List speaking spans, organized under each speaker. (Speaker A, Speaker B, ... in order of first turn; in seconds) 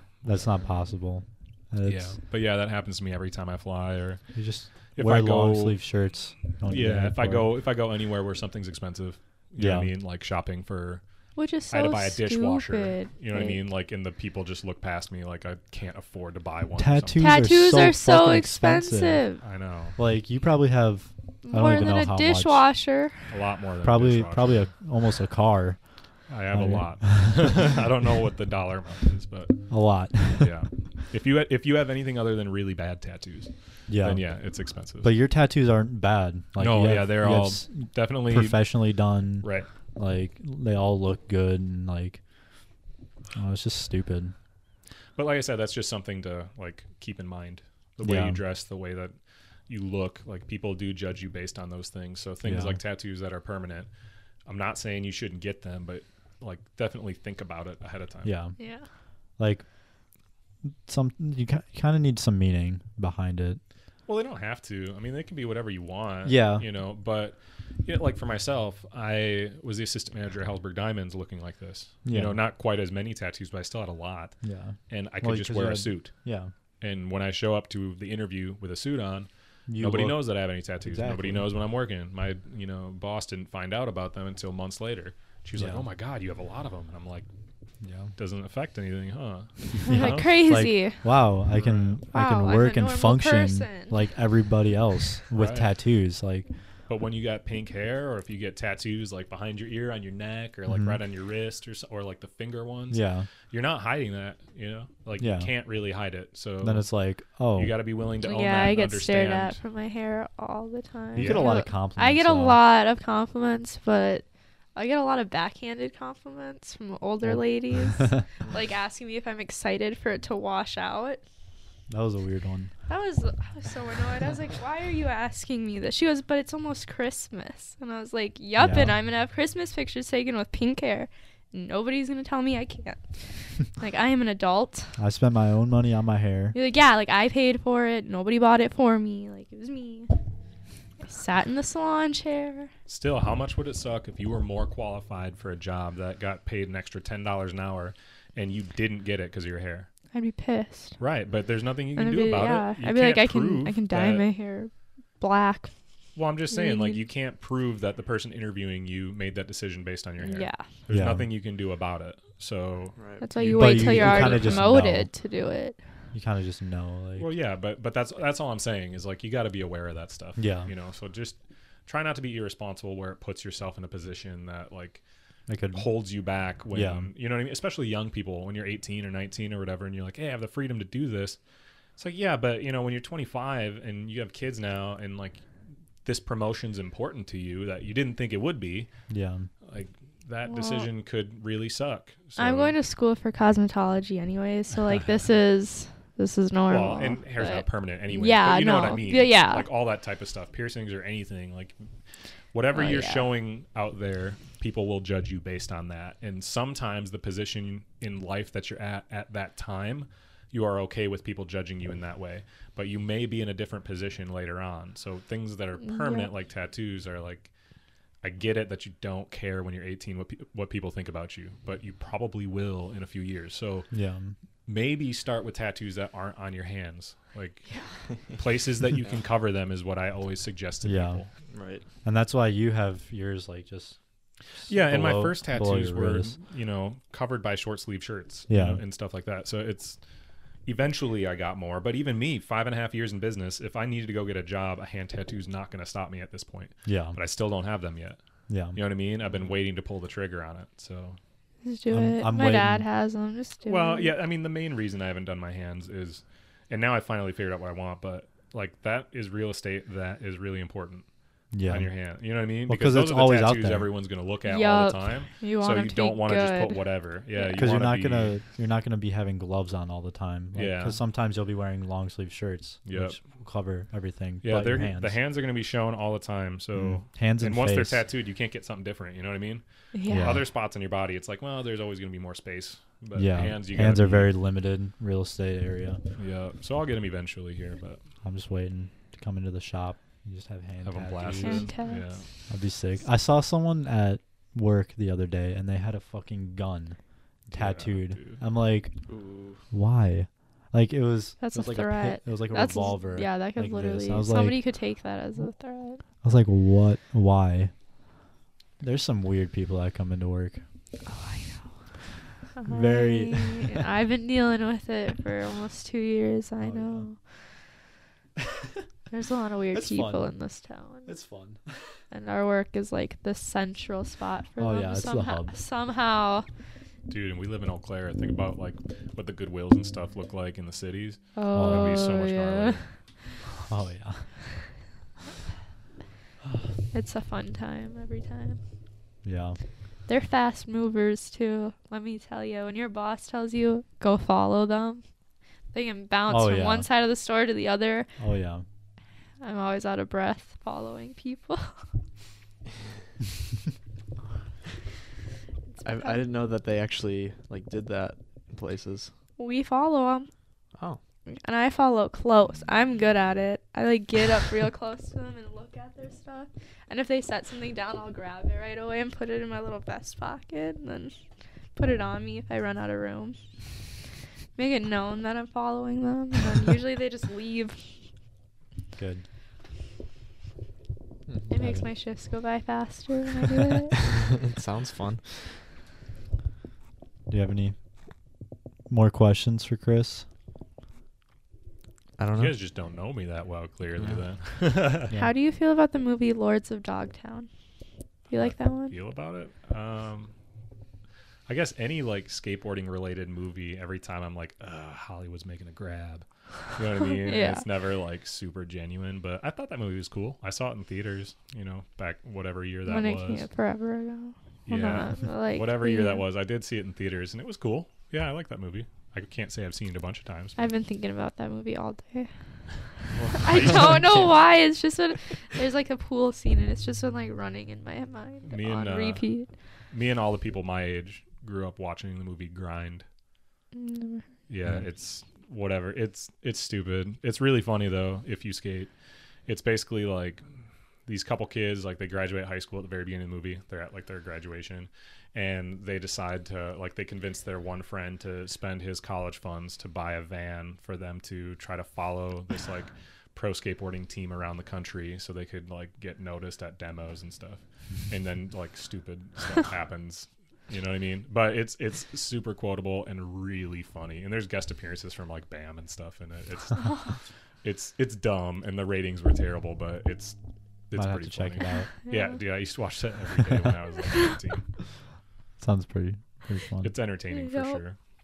Speaker A: 0.2-2.2, 4.3-7.5, 9.6-9.9, 16.8-19.2, 20.0-22.6, 23.8-25.8, 26.5-27.5, 29.7-30.5, 33.9-34.2, 35.0-42.2, 43.3-44.3, 48.0-48.4, 52.4-52.8, 58.2-58.5, 59.4-59.6, 60.9-63.6, 66.2-66.6, 72.0-72.4, 74.4-76.5, 79.7-81.5, 85.5-85.8, 87.8-88.1, 89.8-96.5, 100.7-101.0, 102.9-103.3, 105.2-105.5, 106.6-107.8, 111.1-112.6, 117.2-118.2, 121.9-122.7, 128.6-128.9, 135.0-136.6, 160.9-161.3, 163.5-165.1, 166.1-167.3, 170.4-170.7, 175.5-175.9, 176.7-177.1, 189.1-189.5, 223.9-224.3, 230.8-231.2, 232.0-234.0, 234.6-236.3, 238.5-238.8, 246.8-247.2, 248.5-248.8, 251.9-252.8, 261.5-261.9, 262.6-263.9, 267.5-275.1, 276.8-278.0, 280.1-280.4, 283.1-286.0, 288.2-291.7, 292.5-297.0, 297.5-298.9, 299.7-304.6, 306.2-307.7, 308.8-310.6, 312.7-313.8, 316.6-317.1, 319.7-320.2, 321.1-321.8, 324.6-325.5, 331.5-332.1, 333.5-334.3, 339.2-339.6, 346.3-346.9, 348.2-348.6, 378.9-379.2, 381.5-381.8, 387.3-387.7, 388.9-390.2, 470.9-471.9, 473.4-473.7, 475.6-476.9
Speaker B: 1.8-4.2, 4.9-5.8, 6.7-11.0, 11.7-17.5, 19.4-20.0, 23.3-24.6, 26.3-29.7, 30.4-35.1, 36.6-38.7, 39.4-39.7, 45.1-49.1, 49.7-53.9, 54.5-58.3, 64.1-74.4, 74.9-76.1, 76.8-87.3, 88.2-90.4, 91.5-92.0, 95.3-95.7, 96.9-106.9, 107.5-109.6, 111.2-111.5, 142.9-149.9, 151.0-154.2, 156.2-164.8, 167.2-175.0, 175.7-181.4, 182.0-185.4, 186.0-188.9, 189.6-192.8, 196.7-201.8, 202.5-217.5, 218.2-223.9, 224.7-227.7, 228.3-231.3, 234.7-240.0, 240.6-248.2, 248.7-251.2, 253.6-261.1, 261.6-268.4, 270.5-271.0, 272.9-273.2, 274.4-284.3, 286.2-288.0, 290.8-292.2, 297.5-298.4, 327.1-332.8, 392.3-395.1, 398.3-400.3, 401.5-413.5, 414.6-420.7, 423.4-424.1, 428.4-429.2, 429.9-433.0, 434.5-438.9, 439.5-440.4, 441.1-467.0, 467.6-470.4, 470.9-474.6, 476.8-477.9
Speaker C: 11.3-13.6, 17.2-19.4, 21.4-23.2, 58.6-58.8, 89.8-91.0, 92.1-94.0, 108.2-121.2, 122.9-134.9, 136.5-140.1, 141.0-142.7, 150.1-151.0, 152.0-155.7, 156.5-157.0, 160.2-160.7, 163.2-165.8, 190.5-190.9, 192.4-199.7, 202.7-203.3, 215.8-216.3, 251.6-254.1, 264.4-267.6, 279.9-280.4, 291.4-292.1, 301.4-306.0, 311.1-311.8, 312.6-317.2, 319.1-321.1, 322.1-326.4, 331.4-332.8, 336.9-338.6, 340.1-345.0, 345.7-348.1, 349.4-351.8, 355.7-356.2, 359.4-360.3, 361.3-371.1, 371.7-373.4, 374.6-377.8, 381.5-384.0, 395.1-397.5, 398.3-398.9, 407.2-407.6, 412.9-416.2, 420.6-422.3, 423.3-429.5, 433.7-434.3, 466.8-467.1, 472.1-472.3, 477.3-477.8
Speaker D: 162.9-163.3, 231.5-231.8, 249.3-249.5, 299.1-299.6, 355.8-359.1, 384.1-385.5, 392.2-392.6, 423.1-424.3